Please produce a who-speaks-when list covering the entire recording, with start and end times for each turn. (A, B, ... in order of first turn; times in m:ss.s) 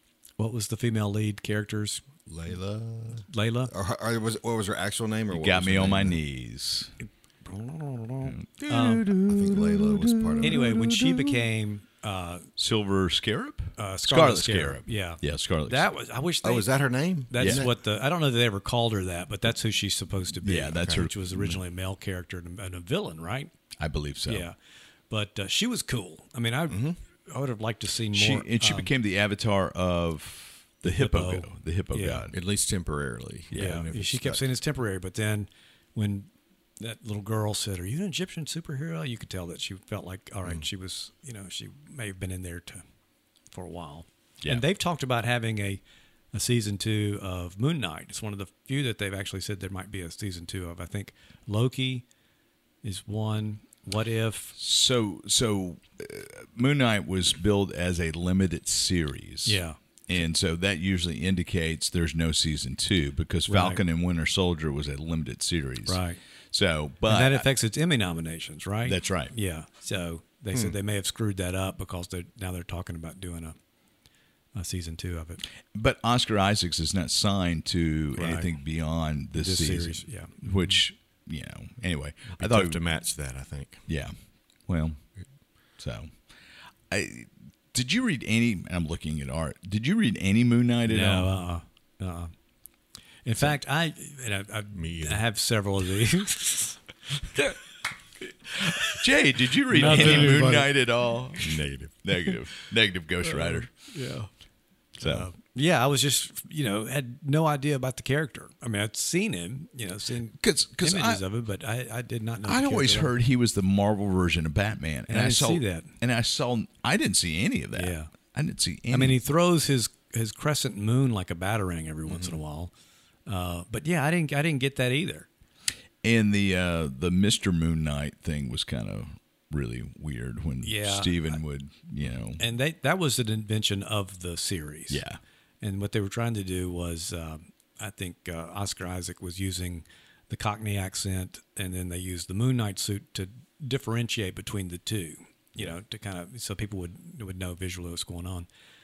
0:00.4-0:02.0 A
0:02.3-0:06.2 B
0:03.3-0:03.7 A
0:05.3-0:06.9 C
0:07.0-0:09.1 A
0:08.2-0:11.4 C
0:09.2-0:10.7 B
0:10.4-0:12.5 A
0:12.6-0:15.9 C
0:13.8-0:16.7 A
0:16.4-0:17.8 B
0:17.3-0:23.5 A
0:17.4-0:17.7 C
0:20.4-0:21.6 C
0:20.8-0:21.1 B
0:23.8-0:24.5 C
0:24.3-0:24.6 A
0:25.1-0:28.9 A
0:26.7-0:27.0 B
0:28.1-0:32.3 C
0:30.8-0:32.3 A
0:32.3-0:34.5 B
0:33.5-0:33.9 C
0:33.6-0:42.8 A
0:43.5-0:45.8 A
0:46.3-0:52.0 A
0:52.8-0:54.6 A
0:54.6-1:06.0 C
0:59.4-0:59.8 A
1:03.5-1:03.8 A
1:05.8-1:06.2 A
1:06.5-1:07.5 C
1:07.1-1:13.6 A
1:08.9-1:09.3 C
1:14.5-1:15.4 A
1:15.7-1:22.8 C
1:18.2-1:18.5 A
1:19.4-1:20.7 A
1:22.3-1:23.8 B
1:23.9-1:24.1 C
1:24.7-1:25.0 C
1:25.8-1:26.2 C
1:26.9-1:31.3 C
1:30.9-1:32.3 A
1:33.2-1:36.8 A
1:34.8-1:35.2 B
1:38.8-1:43.7 C
1:39.7-1:40.7 A
1:39.8-1:40.4 B
1:41.4-1:41.9 B
1:43.2-1:44.3 A
1:45.0-1:45.3 C
1:45.0-1:53.1 A
1:50.4-1:51.2 C
1:52.5-1:59.2 C
1:55.1-1:55.9 A
1:57.8-1:58.1 A
1:58.9-2:02.7 A
2:02.1-2:02.4 B
2:03.3-2:05.3 A
2:06.0-2:12.4 C
2:10.6-2:11.4 A
2:12.4-2:15.0 A
2:14.9-2:15.2 C
2:15.6-2:28.5 A